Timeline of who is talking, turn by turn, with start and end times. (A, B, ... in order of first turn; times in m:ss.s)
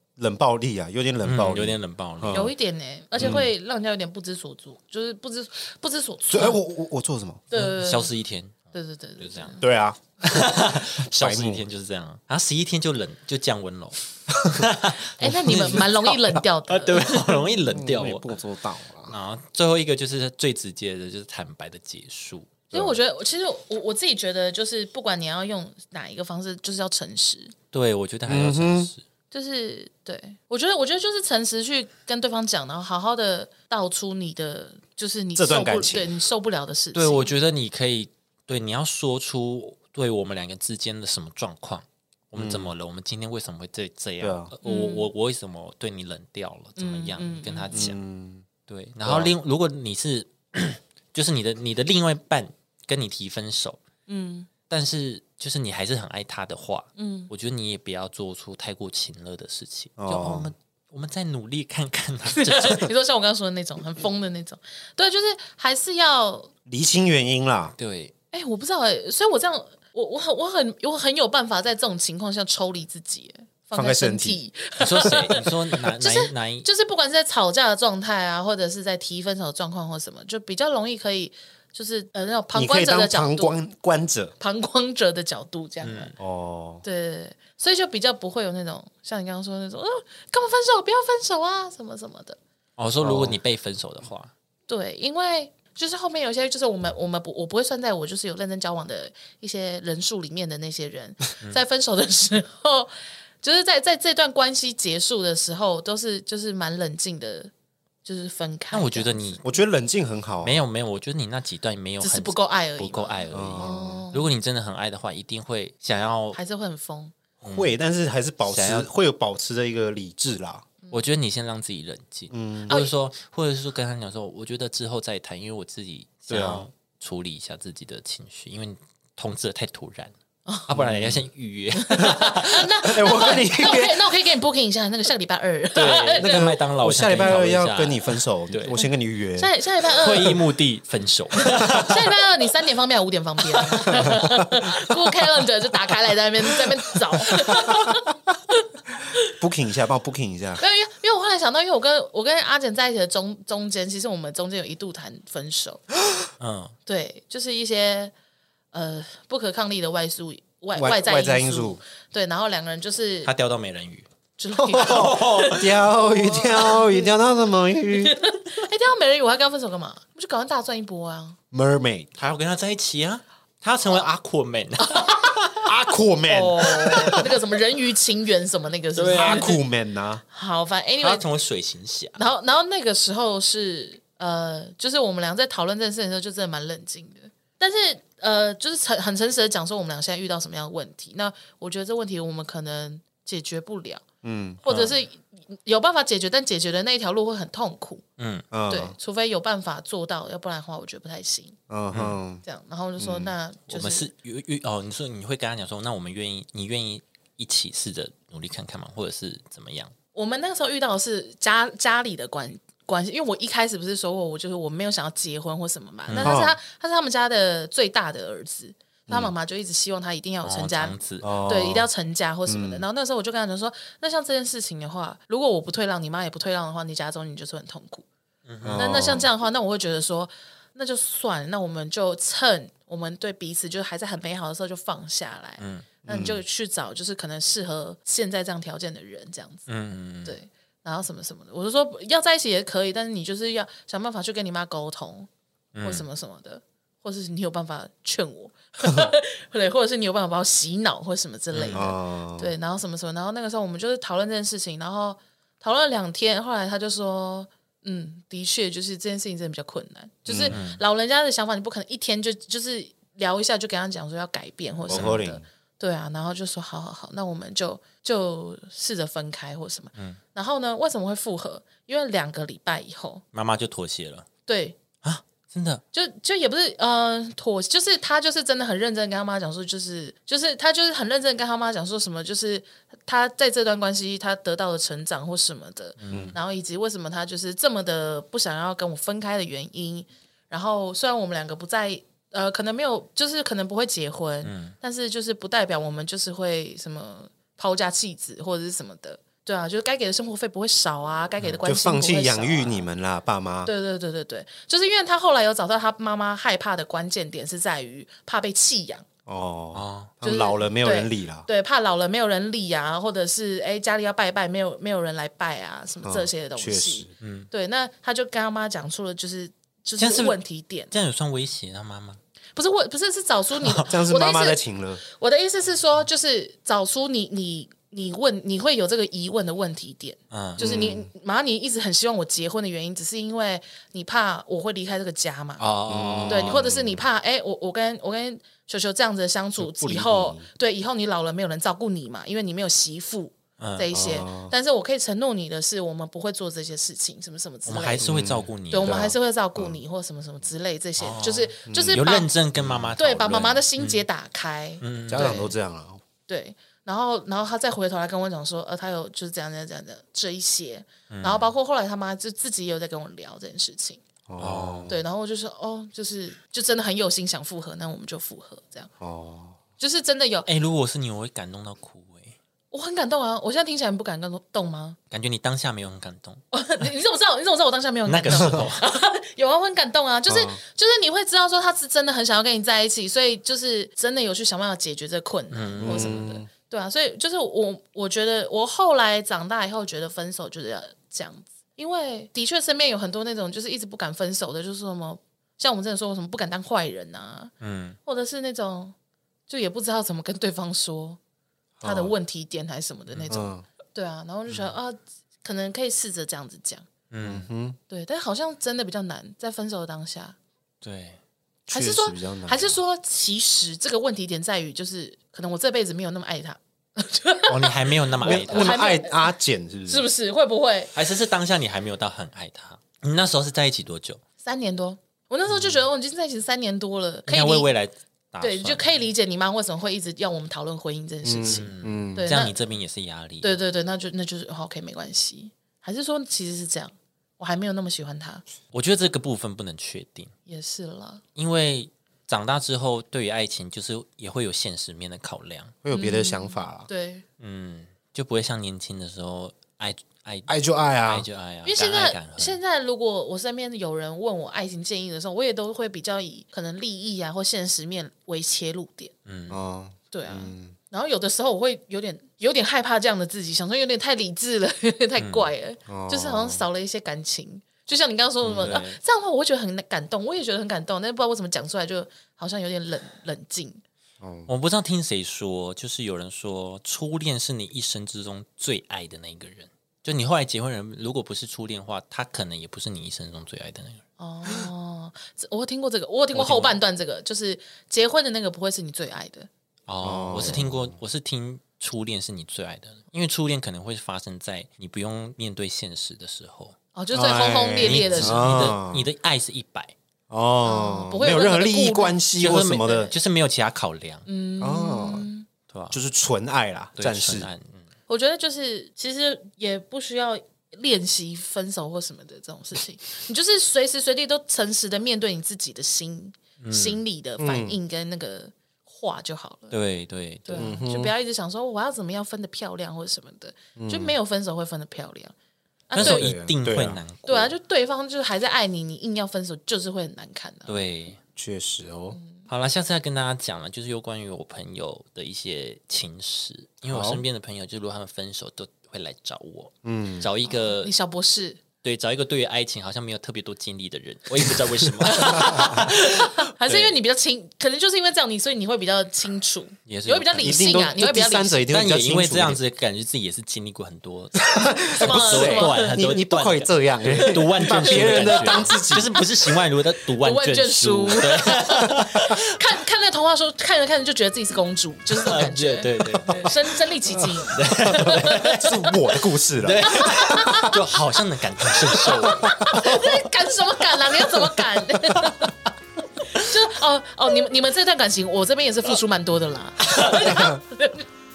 0:00.2-0:02.5 A
0:01.2-0:02.5 B
0:02.3-0:06.6 C
0:03.2-0:03.4 A
0:06.3-0:07.4 A
0:07.5-0:08.1 C
0:07.5-0:09.6 B
0:08.7-0:09.6 C
0:09.6-0:11.6 A
0:10.2-0:18.4 B
0:14.3-0:14.6 A
0:15.0-0:17.4 C
0:15.2-0:15.9 A
0:17.7-0:19.2 A
0:19.1-0:22.8 B
0:22.7-0:27.5 C
0:27.7-0:29.0 B
0:28.2-0:28.9 A
0:29.3-0:37.3 C
0:35.4-0:36.1 A
0:36.9-0:48.0 B
0:42.4-0:42.7 A
0:44.2-0:44.5 A
0:44.6-0:45.1 C
0:46.8-0:47.8 C
0:47.7-0:48.4 A
0:48.7-0:53.8 B
0:49.0-0:49.3 A
0:54.1-0:54.5 C
0:54.7-1:02.9 B
0:57.0-0:57.3 C
1:00.0-1:00.5 A
1:02.3-1:06.5 C
1:06.6-1:07.7 A
1:07.8-1:08.1 B
1:08.3-1:23.6 C
1:13.7-1:14.4 A
1:14.8-1:16.7 B
1:22.5-1:24.3 A
1:24.4-1:26.1 C
1:25.8-1:26.1 B
1:26.2-1:26.8 A
1:26.8-1:32.4 C
1:32.8-1:34.3 B
1:33.0-1:33.4 A
1:34.7-1:42.9 C
1:43.4-1:47.5 C
1:48.0-1:49.6 C
1:48.7-1:49.4 B
1:49.4-1:50.6 A
1:50.4-1:56.4 B
1:52.0-1:54.3 C
1:53.3-1:54.0 A
1:56.3-1:57.1 C
1:57.4-1:57.7 B
1:57.5-2:00.6 A
1:58.5-1:58.9 B
2:00.9-2:10.1 B
2:02.3-2:02.8 A
2:06.3-2:06.7 A
2:10.4-2:10.7 C
2:10.7-2:13.3 B
2:10.7-2:11.2 A
2:11.7-2:16.5 C
2:12.8-2:14.0 A
2:15.7-2:18.8 B
2:16.2-2:19.5 A
2:18.7-2:20.4 C
2:19.9-2:22.1 B
2:21.6-2:21.8 A
2:21.6-2:28.6 C
2:23.7-2:24.1 B
2:27.6-2:27.9 A
2:29.3-2:30.6 A
2:30.6-2:35.8 C
2:36.4-2:36.7 B
2:36.8-2:38.1 C
2:38.7-2:43.3 C
2:40.8-2:41.8 A
2:43.2-2:44.1 B
2:44.4-2:47.1 C
2:44.5-2:48.2 A
2:44.7-2:45.8 B
2:47.9-2:51.4 C
2:51.5-2:52.1 A
2:52.2-2:55.6 B
2:54.9-2:55.3 C
2:55.6-2:57.3 A
2:56.3-2:59.6 C
2:57.0-2:57.2 B
2:58.9-2:59.6 B
2:59.1-3:00.2 A
3:00.3-3:01.2 C
3:01.0-3:02.2 B
3:02.2-3:14.0 C
3:14.2-3:14.6 A
3:14.6-3:18.0 C
3:14.6-3:15.0 B
3:18.2-3:18.4 B
3:18.5-3:18.9 A
3:18.7-3:21.6 C
3:21.7-3:22.4 A
3:21.9-3:22.2 B
3:22.4-3:24.1 C
3:23.0-3:23.3 A
3:23.7-3:29.9 B
3:30.1-3:48.0 C
3:36.1-3:36.4 B
3:36.2-3:36.6 A
3:39.1-3:39.3 A
3:40.4-3:41.3 B
3:41.2-3:41.9 A
3:42.5-3:42.8 A
3:48.4-3:49.2 B
3:48.6-3:49.3 A
3:48.8-3:59.7 C
3:55.6-3:55.9 B
3:56.0-3:56.4 A
3:59.7-4:00.4 B
4:00.2-4:05.3 C
4:05.7-4:06.0 B
4:05.8-4:33.2 C
4:11.5-4:11.8 B
4:11.7-4:12.5 A
4:20.3-4:20.6 A
4:20.5-4:20.8 B
4:24.9-4:25.4 A
4:24.9-4:25.2 B
4:33.3-4:34.3 B
4:34.5-4:34.8 C
4:35.0-4:35.8 B
4:35.9-5:02.8 C
4:46.0-4:46.4 B
4:46.1-4:46.4 A
4:54.4-4:54.7 B
5:01.6-5:03.7 A
5:03.6-5:09.0 C
5:09.2-5:11.5 A
5:09.7-5:10.1 B
5:10.2-5:20.9 C
5:16.0-5:17.1 A
5:17.2-5:17.5 B
5:20.0-5:20.4 B
5:20.9-5:22.2 B
5:22.6-5:35.6 C
5:23.9-5:25.0 A
5:30.3-5:30.6 B
5:30.6-5:31.1 A
5:35.6-5:36.5 B
5:35.9-5:37.0 A
5:36.3-5:48.1 C
5:39.6-5:40.4 A
5:43.6-5:43.9 B
5:43.9-5:44.5 A
5:47.6-5:49.0 B
5:48.0-5:49.8 A
5:48.7-5:52.3 C
5:51.0-5:54.0 B
5:51.7-5:52.0 A
5:52.6-5:52.9 A
5:53.0-5:55.5 C
5:54.8-5:55.5 B
5:55.1-5:56.0 A
5:56.3-6:04.0 C
6:01.1-6:01.5 B
6:04.3-6:05.0 A
6:04.4-6:04.9 B
6:04.9-6:08.9 C
6:09.0-6:09.6 A
6:09.8-6:10.5 C
6:10.4-6:12.4 B
6:12.7-6:15.0 C
6:15.1-6:16.4 B
6:16.5-6:37.5 C
6:18.0-6:18.8 B
6:20.3-6:20.6 A
6:25.5-6:26.2 B
6:25.8-6:26.5 A
6:37.6-6:38.0 B
6:38.0-6:38.9 C
6:39.5-6:41.2 C
6:41.8-6:42.1 A
6:41.8-6:46.9 C
6:43.1-6:43.4 B
6:43.3-6:43.6 A
6:47.1-6:47.5 B
6:47.2-6:47.8 A
6:47.9-6:50.4 C
6:50.8-6:51.2 B
6:51.7-6:52.7 A
6:51.7-6:59.3 C
6:57.5-6:58.8 B
6:58.2-7:00.0 A
6:59.9-7:00.9 C
7:00.9-7:04.2 B
7:04.4-7:07.7 C
7:07.3-7:08.8 B
7:08.4-7:12.6 C
7:11.2-7:12.3 A
7:11.4-7:13.6 B
7:13.4-7:18.4 C
7:18.7-7:20.3 B
7:20.5-7:21.2 C
7:21.4-7:25.7 B
7:25.8-7:26.9 A
7:25.9-7:27.2 C
7:27.4-7:32.6 B
7:30.5-7:31.3 A
7:31.6-7:39.1 C
7:39.2-7:39.6 B
7:39.5-7:40.7 A
7:40.1-7:53.8 C
7:45.2-7:45.5 B
7:45.9-7:46.6 A
7:48.4-7:48.8 A
7:48.4-7:49.0 B
7:54.2-7:54.5 A
7:54.5-8:04.0 B
8:04.2-8:09.5 C
8:06.3-8:06.8 B
8:09.9-8:16.8 B
8:10.0-8:10.9 A
8:16.9-8:18.8 C
8:17.1-8:19.1 A
8:17.8-8:19.9 B
8:20.3-8:23.1 A
8:20.6-8:22.2 C
8:22.4-8:24.3 B
8:24.2-8:25.5 C
8:24.6-8:25.3 A
8:25.7-8:26.0 B
8:25.9-8:27.5 A
8:27.0-8:27.8 B
8:28.1-8:39.8 C
8:36.6-8:37.0 B
8:37.4-8:37.8 A
8:39.7-8:40.9 B
8:40.4-8:45.3 C
8:40.6-8:41.1 A
8:43.8-8:44.2 A
8:45.9-8:46.3 C
8:45.9-8:47.5 B
8:46.0-8:47.0 A
8:47.2-8:50.7 C
8:50.7-8:51.2 B
8:51.4-8:52.2 A
8:52.1-8:52.4 C
8:52.5-9:00.9 B
8:56.9-8:57.2 A
8:59.8-9:00.3 A
9:00.4-9:01.6 C
9:01.8-9:06.9 B
9:05.1-9:05.8 A
9:05.1-9:11.6 C
9:09.9-9:10.6 B
9:10.4-9:12.6 A
9:11.7-9:22.4 B
9:14.4-9:19.2 A
9:15.0-9:16.0 C
9:17.1-9:19.2 C
9:20.2-9:28.9 C
9:25.1-9:26.7 B
9:27.4-9:29.0 B
9:27.8-9:30.8 A
9:29.6-9:33.2 B
9:29.8-9:31.0 C
9:31.7-9:35.5 C
9:32.1-9:33.0 A
9:35.2-9:35.5 B
9:36.2-9:41.0 C
9:39.9-9:40.5 B